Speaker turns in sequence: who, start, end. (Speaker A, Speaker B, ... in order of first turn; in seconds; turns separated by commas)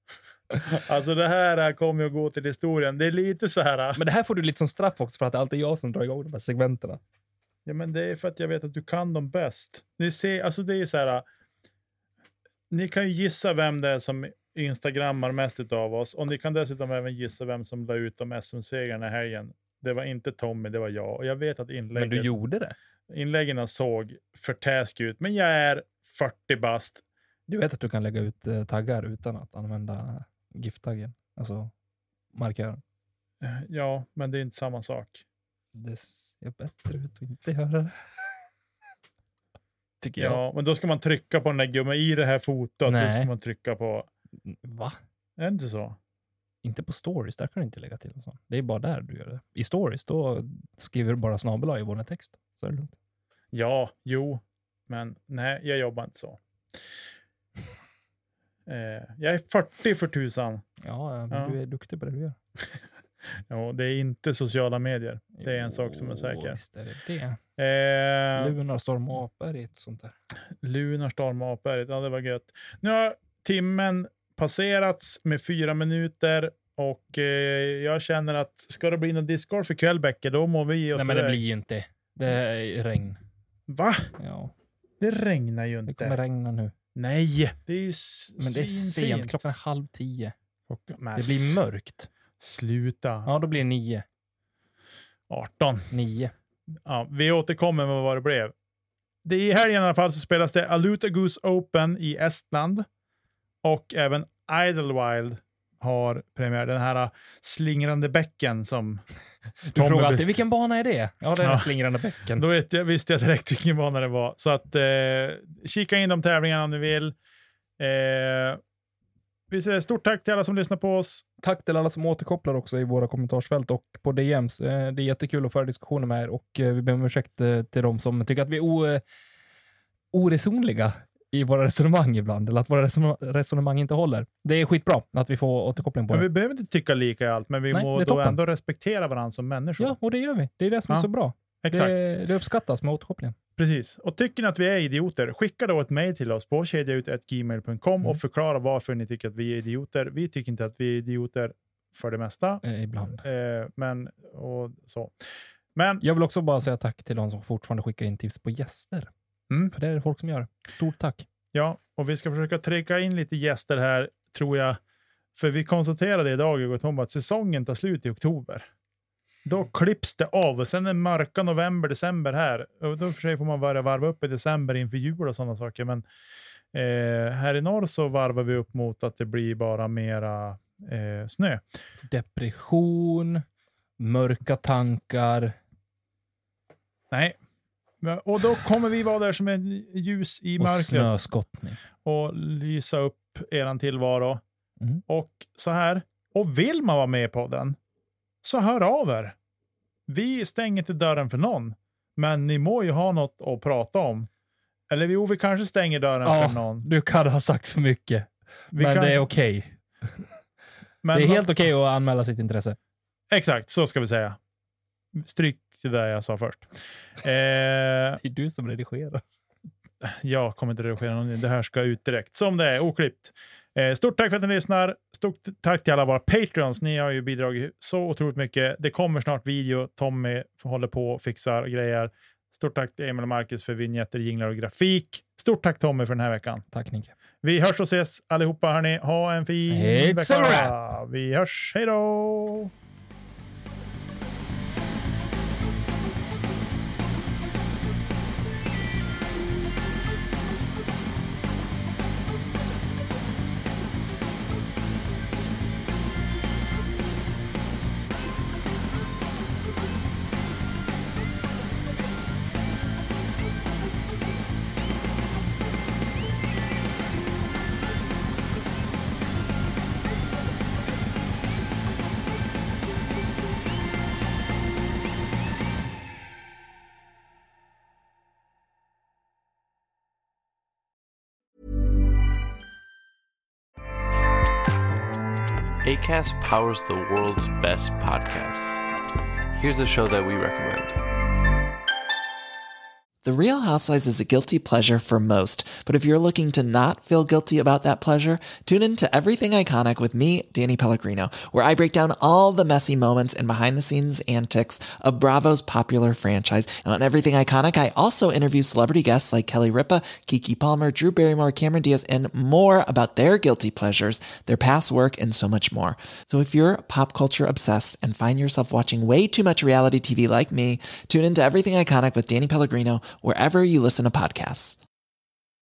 Speaker A: 0.7-4.0, Speaker B: 4.0-7.0, Speaker A: 7.7-11.2, Speaker A: 12.7-22.3, Speaker B: 21.9-22.8, Speaker A: 23.1-27.0, Speaker B: 27.5-31.7, Speaker B: 32.4-32.8, Speaker A: 33.4-35.2, Speaker B: 35.8-38.3, Speaker B: 40.0-40.4, Speaker A: 40.2-44.1, Speaker B: 42.9-43.3, Speaker B: 44.5-45.0, Speaker A: 45.4-46.0, Speaker B: 46.6-52.9, Speaker A: 53.5-56.4, Speaker A: 58.7-60.6, Speaker B: 60.8-62.4, Speaker A: 61.3-61.6, Speaker A: 63.5-66.6, Speaker B: 65.4-67.4, Speaker A: 67.6-68.5, Speaker B: 68.3-70.2, Speaker A: 70.6-81.4, Speaker B: 81.0-83.2, Speaker A: 83.7-84.1, Speaker B: 84.2-84.5, Speaker A: 85.0-86.2, Speaker B: 85.9-86.8, Speaker A: 87.0-89.4, Speaker B: 88.4-90.3, Speaker A: 90.7-91.6, Speaker B: 91.2-92.1, Speaker A: 92.4-93.3, Speaker B: 93.3-94.0, Speaker A: 95.3-95.9, Speaker B: 95.9-96.3, Speaker A: 96.8-98.5, Speaker A: 99.2-102.9, Speaker A: 103.6-109.0, Speaker B: 109.7-112.4, Speaker A: 109.7-110.3, Speaker A: 111.4-111.7, Speaker A: 112.3-117.2, Speaker A: 117.8-118.6, Speaker A: 119.5-121.3, Speaker B: 121.4-129.0, Speaker B: 130.1-136.3, Speaker A: 136.1-140.0, Speaker B: 137.7-138.4, Speaker B: 139.8-143.4, Speaker A: 141.6-142.1, Speaker A: 143.6-155.1, Speaker B: 152.6-153.2, Speaker A: 155.8-156.0, Speaker B: 156.0-159.1, Speaker B: 159.7-161.3, Speaker A: 161.5-164.8, Speaker A: 165.3-168.7, Speaker A: 169.4-176.0, Speaker A: 176.7-181.6, Speaker B: 182.1-183.4, Speaker B: 184.0-185.6, Speaker A: 187.1-187.4, Speaker A: 188.0-191.1, Speaker B: 190.6-191.8, Speaker A: 192.0-194.4, Speaker A: 195.1-197.8, Speaker A: 198.4-199.3, Speaker A: 200.1-204.3, Speaker A: 204.9-206.9, Speaker B: 206.2-209.8, Speaker A: 208.7-209.3, Speaker A: 211.0-211.7, Speaker B: 211.1-212.8, Speaker A: 213.3-214.4, Speaker A: 215.2-218.2, Speaker B: 218.2-219.2, Speaker A: 220.0-236.7, Speaker B: 236.7-237.1, Speaker A: 237.4-242.7, Speaker B: 239.7-240.8, Speaker C: 285.8-288.8, Speaker C: 289.6-291.0, Speaker D: 293.2-324.8